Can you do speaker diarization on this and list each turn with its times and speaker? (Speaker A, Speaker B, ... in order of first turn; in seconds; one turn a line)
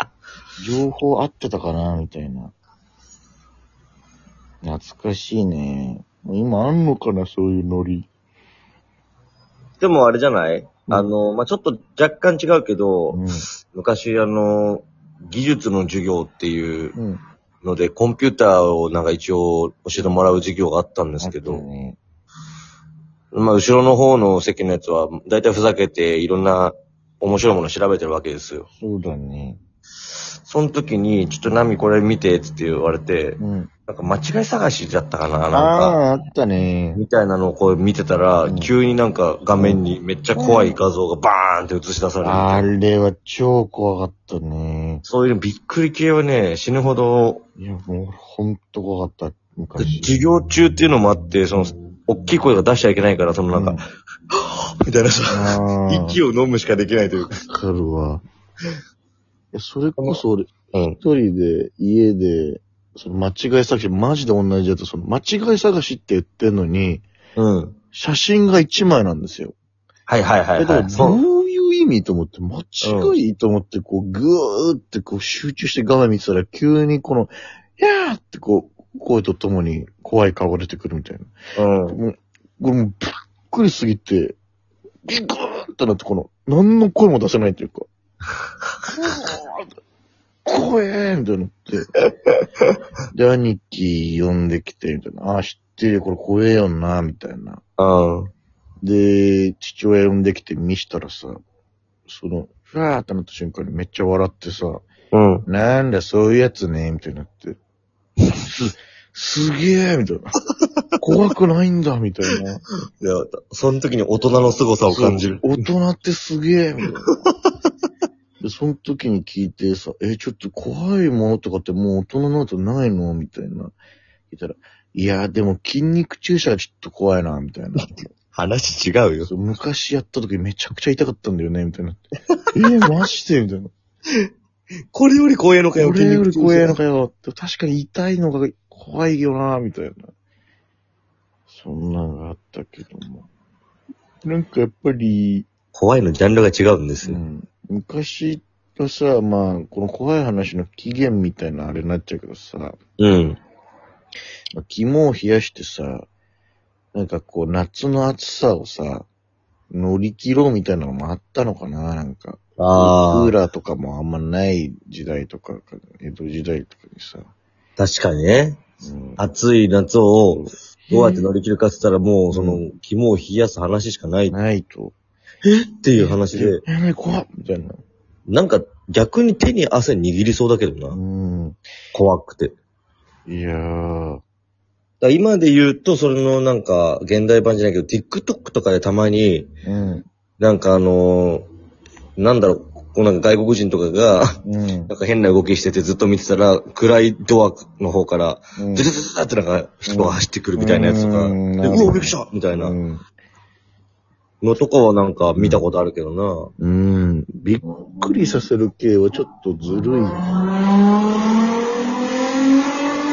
Speaker A: 0.6-2.5
Speaker A: 4.6-8.1
Speaker B: 9.8-16.9
Speaker A: 13.1-13.5
Speaker A: 16.9-17.2
Speaker B: 17.6-21.6
Speaker A: 21.2-22.0
Speaker B: 23.3-28.7
Speaker A: 28.7-29.6
Speaker B: 30.4-36.0
Speaker A: 33.4-33.7
Speaker A: 35.5-37.0
Speaker B: 36.9-42.6
Speaker A: 38.4-38.7
Speaker A: 39.5-39.8
Speaker A: 40.3-40.8
Speaker A: 42.2-45.0
Speaker B: 45.0-47.4
Speaker A: 47.6-50.1
Speaker B: 49.8-57.4
Speaker A: 53.5-53.8
Speaker A: 55.3-56.2
Speaker A: 57.5-58.2
Speaker A: 59.5-67.0
Speaker B: 60.7-61.0
Speaker B: 67.4-67.8
Speaker A: 67.9-69.5
Speaker B: 70.1-71.2
Speaker A: 70.6-81.3
Speaker B: 72.8-73.2
Speaker B: 81.5-82.0
Speaker A: 81.9-84.4
Speaker A: 85.0-87.8
Speaker A: 89.0-89.7
Speaker A: 90.5-91.8
Speaker B: 92.3-92.8
Speaker A: 93.1-97.6
Speaker B: 97.8-98.3
Speaker A: 98.8-101.4
Speaker A: 102.1-104.8
Speaker B: 105.1-105.5
Speaker A: 105.5-107.6
Speaker A: 108.4-110.3
Speaker A: 111.0-112.6
Speaker B: 113.0-115.5
Speaker A: 114.9-117.1
Speaker B: 117.0-117.3
Speaker A: 118.4-123.7
Speaker A: 124.3-128.1
Speaker B: 127.8-129.3
Speaker A: 129.2-133.7
Speaker B: 134.9-136.8
Speaker A: 135.8-140.1
Speaker A: 141.5-143.3
Speaker A: 144.2-145.5
Speaker B: 145.7-147.2
Speaker A: 147.0-152.8
Speaker B: 153.0-153.4
Speaker A: 154.6-156.1
Speaker A: 156.9-159.1
Speaker A: 159.7-167.3
Speaker B: 162.6-163.3
Speaker B: 167.8-168.6
Speaker A: 168.8-169.2
Speaker B: 169.2-174.4
Speaker A: 170.9-171.3
Speaker A: 172.3-172.6
Speaker A: 174.3-174.9
Speaker B: 175.4-176.6
Speaker A: 175.9-177.8
Speaker B: 178.3-181.0
Speaker A: 180.9-181.6
Speaker B: 181.9-182.5
Speaker A: 183.3-184.2
Speaker B: 185.0-189.5
Speaker A: 189.7-190.0
Speaker B: 190.4-191.4
Speaker B: 192.2-202.8
Speaker A: 194.4-194.9
Speaker A: 198.6-198.9
Speaker A: 199.9-203.0
Speaker B: 204.4-206.5
Speaker A: 205.4-205.6
Speaker A: 206.6-210.2